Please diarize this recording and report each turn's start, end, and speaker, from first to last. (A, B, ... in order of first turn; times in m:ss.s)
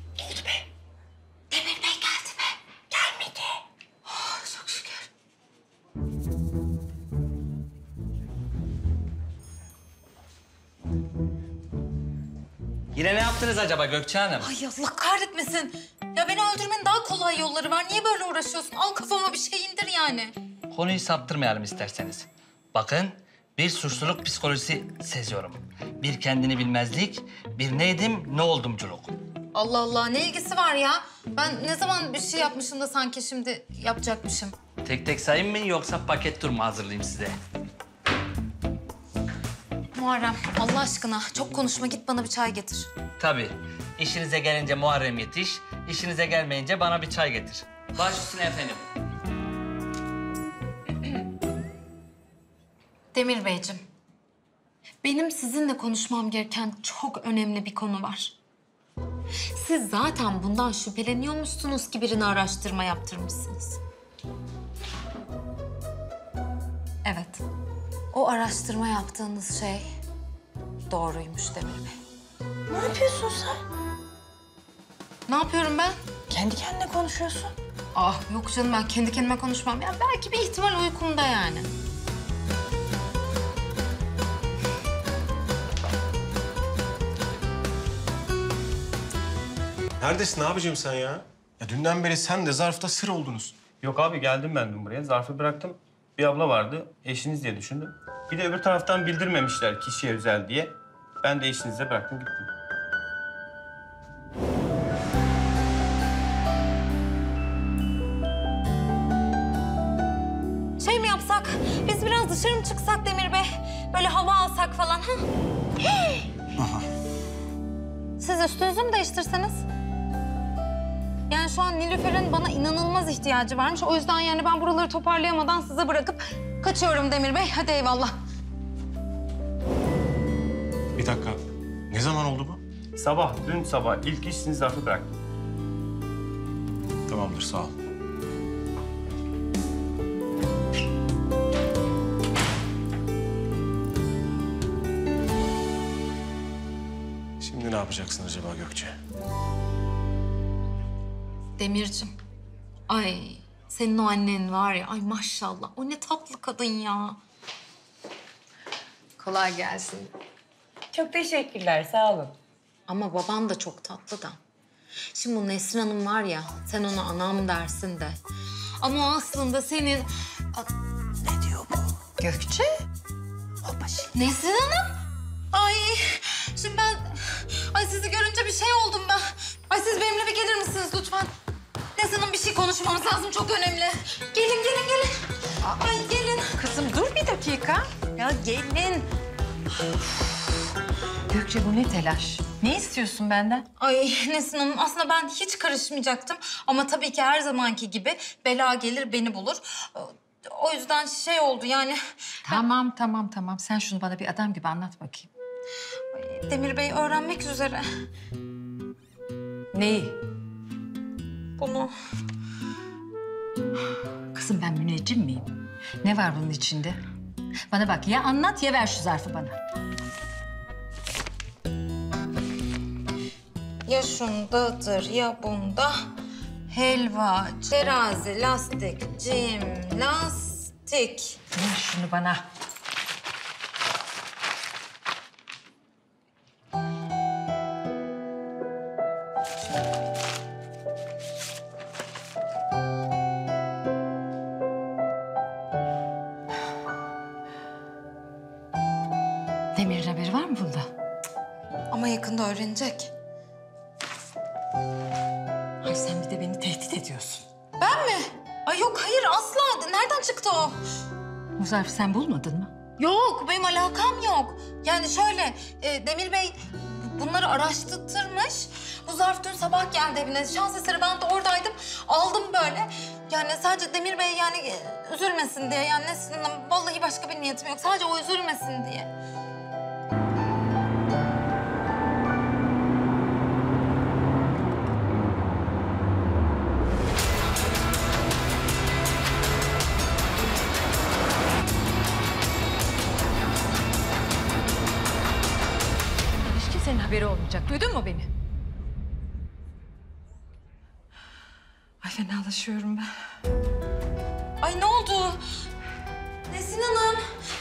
0:01.5-0:02.6 A
0:04.2-0:04.7 B
0:04.5-0:04.8 A
0:13.0-0:14.5 C
0:14.4-0:20.4 A
0:20.7-0:29.1 C
0:29.5-0:34.6 A
0:34.8-0:37.4 C
0:39.9-0:42.9 A
0:43.2-0:48.8 C
0:53.1-0:53.8 A
0:55.0-0:58.4 A
0:59.6-1:03.8 A
1:07.0-1:07.4 A
1:08.1-1:09.9 A
1:10.9-1:12.0 A
1:12.7-1:13.6 B
1:15.3-1:16.0 A
1:16.3-1:17.5 B
1:17.9-1:21.7 A
1:30.0-1:33.6 D
1:33.8-1:42.5 E
1:50.8-1:55.1 A
1:58.2-1:59.6 A
2:01.3-2:08.2 A
2:11.0-2:11.4 D
2:11.9-2:12.6 D
2:13.0-2:15.1 E
2:17.1-2:17.7 D
2:27.4-2:28.9 D
2:31.6-2:32.1 A
2:32.9-2:37.2 A
2:39.2-2:40.1 B
2:40.9-2:42.4 B
2:42.9-2:44.4 A
2:45.1-2:48.2 A
2:48.8-2:50.7 A
2:52.2-2:52.7 B
2:54.1-2:54.9 A
2:55.5-3:01.3 A
3:02.0-3:05.1 A
3:05.6-3:06.6 A
3:06.5-3:08.0 B
3:08.1-3:09.1 A
3:11.3-3:13.6 B
3:13.8-3:22.6 A
3:22.4-3:25.3 B
3:26.1-3:27.9 A
3:29.7-3:30.2 B
3:31.6-3:31.9 A
3:34.3-3:35.5 B
3:36.0-3:37.0 B
3:37.7-3:39.6 B
3:43.8-3:46.0 A
3:46.7-3:51.4 A
3:51.5-3:52.5 B
4:09.8-4:10.9 B
4:11.9-4:13.1 A
4:15.8-4:17.4 B
4:17.8-4:20.8 A
4:21.6-4:22.7 B
4:23.0-4:39.1 A
4:56.4-4:58.3 B
5:02.0-5:03.1 B
5:04.6-5:05.4 A
5:06.5-5:07.2 A